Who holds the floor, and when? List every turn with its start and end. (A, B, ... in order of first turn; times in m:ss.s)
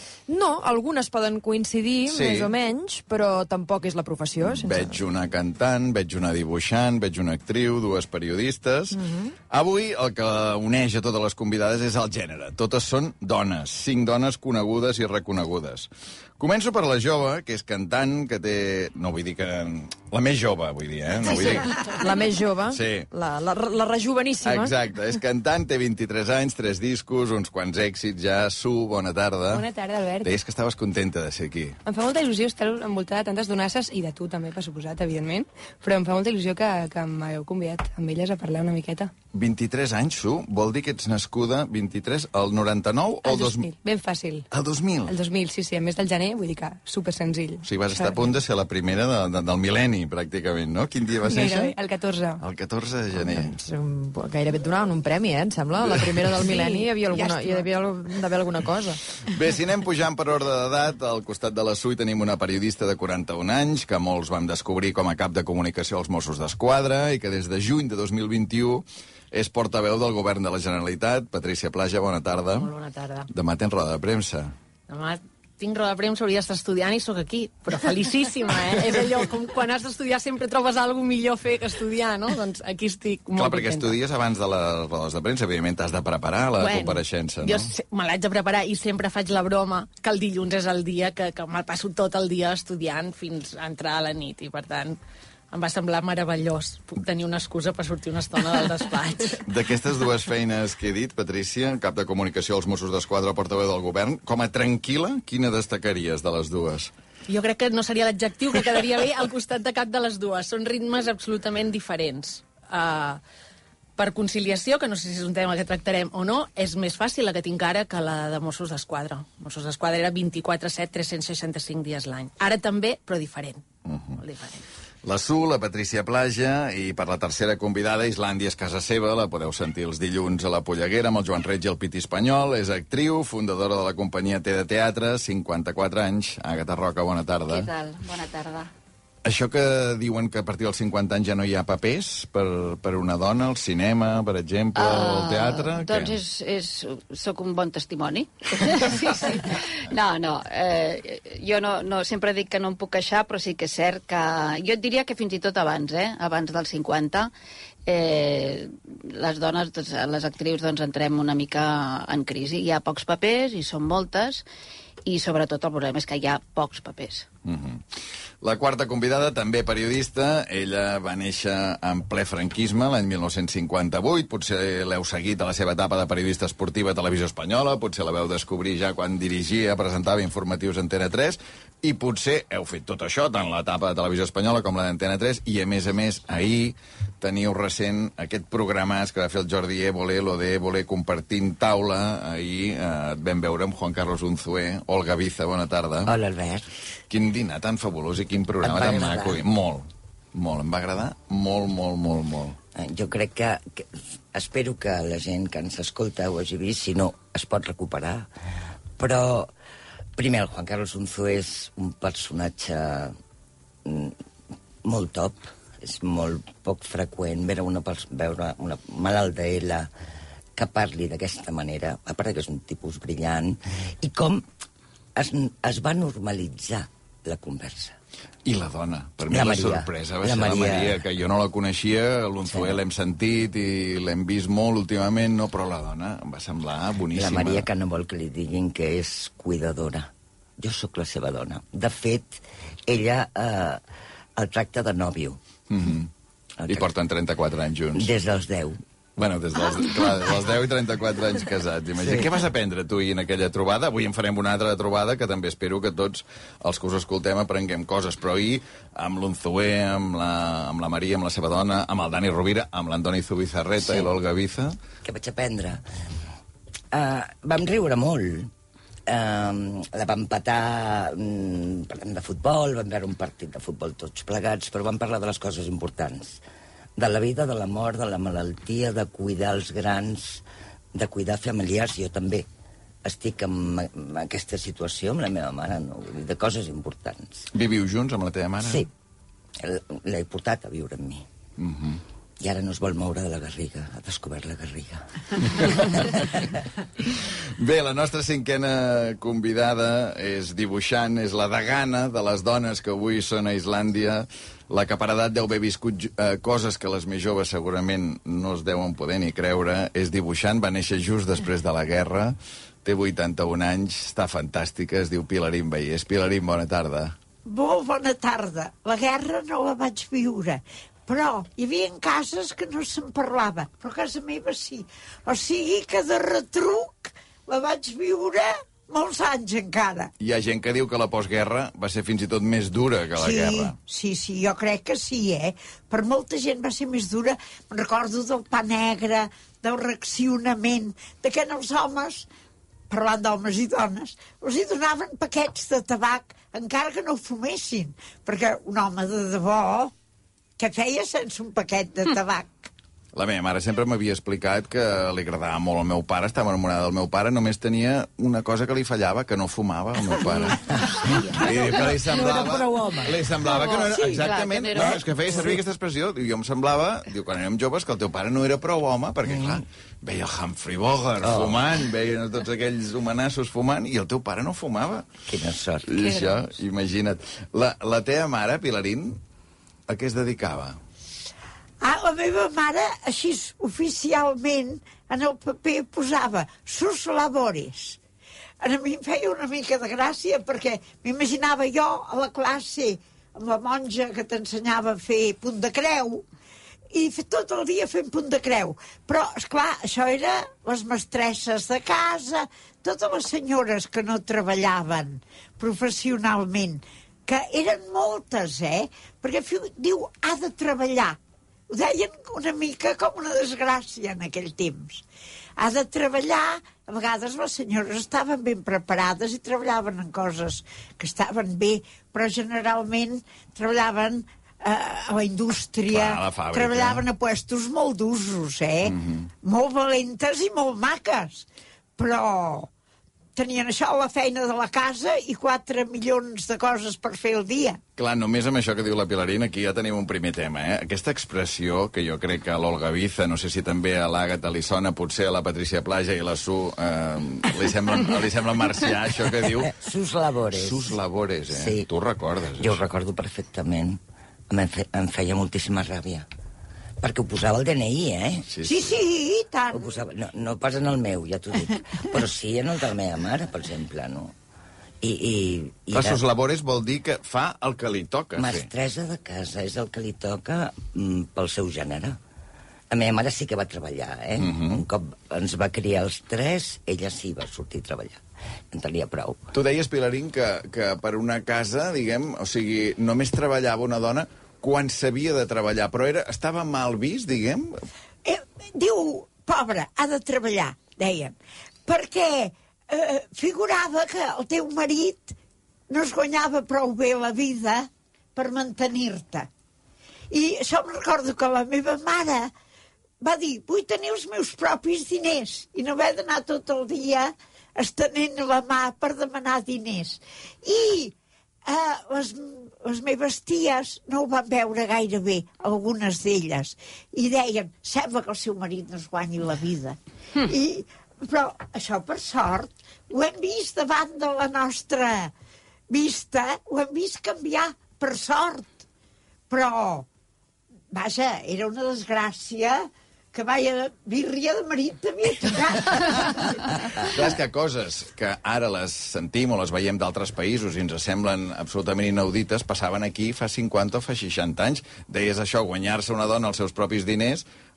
0:00.3-0:05.0 A
0:02.1-0:02.5 B
0:04.4-0:09.0 B
0:08.9-0:09.3 A
0:09.5-0:21.9 B
0:21.2-0:24.8 A
0:22.7-0:23.1 B
0:24.4-0:29.6 B
0:29.5-0:30.3 C
0:30.2-0:31.8 B
0:31.8-0:39.1 C
0:39.3-0:43.7 B
0:43.2-0:44.5 C
0:44.5-0:45.2 B
0:45.0-0:48.3 C
0:47.6-0:51.7 B
0:51.3-0:52.4 C
0:52.4-0:53.5 B
0:53.2-0:59.0 A
0:55.8-0:56.4 B
0:56.4-0:57.7 C
0:59.3-1:12.7 B
1:12.5-1:13.3 D
1:13.3-1:14.5 B
1:14.9-1:24.0 D
1:23.4-1:27.7 B
1:26.6-1:35.0 D
1:35.5-1:39.4 D
1:39.4-1:46.9 B
1:47.3-1:53.2 D
1:54.0-2:03.6 D
2:03.9-2:04.2 B
2:04.2-2:04.6 D
2:05.0-2:17.7 B
2:17.5-2:18.7 E
2:19.2-2:26.2 B
2:24.8-2:37.3 E
2:37.8-2:44.4 E
2:45.0-2:47.3 E
2:47.4-2:47.8 B
2:48.4-3:16.1 B
3:16.0-3:16.7 F
3:17.1-3:22.6 B
3:18.6-3:19.4 F
3:22.7-3:28.3 F
3:29.0-3:29.5 F
3:30.2-3:33.1 F
3:33.8-3:34.2 F
3:34.8-3:39.9 F
3:40.6-3:44.4 F
3:45.2-3:48.0 F
3:48.4-3:57.7 B
3:49.3-3:51.0 F
3:52.5-3:52.8 F
3:57.1-4:03.8 F
4:04.4-4:05.4 F
4:05.7-4:06.1 B
4:06.6-4:06.9 F
4:06.6-4:08.1 B
4:07.9-4:08.8 F
4:09.2-4:24.8 B
4:12.0-4:12.3 F
4:23.8-4:24.1 F
4:25.0-4:25.8 F
4:26.9-4:28.5 F
4:29.1-4:36.4 F
4:37.0-4:42.4 F
4:43.0-4:47.5 F
4:47.5-4:48.9 B
4:48.6-4:48.9 F
4:49.6-4:51.2 F
4:51.6-4:52.0 B
4:52.4-4:55.0 F
4:55.6-4:56.4 F
4:57.1-5:17.1 B
5:17.4-5:30.1 G
5:30.2-5:33.7 B
5:33.2-5:42.3 G
5:42.9-5:49.9 G
5:50.6-5:52.7 G
5:53.1-6:15.2 B
6:00.5-6:03.3 F
6:03.5-6:05.1 E
6:09.2-6:09.6 F
6:11.2-6:11.6 F
6:15.3-6:16.0 F
6:15.9-6:19.2 B
6:16.1-6:16.4 E
6:19.9-6:20.8 B
6:21.8-6:28.0 G
6:28.6-6:36.2 G
6:36.9-6:55.0 G
6:55.6-7:11.4 G
7:05.9-7:07.0 B
7:08.8-7:09.3 B
7:12.0-7:12.7 G
7:13.4-7:17.8 G
7:18.0-7:29.8 B
7:29.6-7:30.9 F
7:30.5-7:32.8 B
7:31.5-7:31.9 F
7:32.6-7:34.0 F
7:34.5-7:36.3 F
7:37.0-7:38.5 F
7:38.5-7:38.9 B
7:38.6-7:39.9 G
7:39.7-7:44.3 F
7:45.0-7:46.2 F
7:45.9-7:48.7 B
7:48.4-7:52.2 F
7:52.9-7:59.4 F
7:54.4-7:54.8 B
7:59.5-8:07.8 B
8:08.2-8:15.3 G
8:15.9-8:19.5 G
8:20.3-8:22.5 G
8:23.2-8:45.3 G
8:45.9-8:48.8 G
8:49.5-8:50.1 G
8:50.9-8:56.6 G
8:57.0-9:07.4 B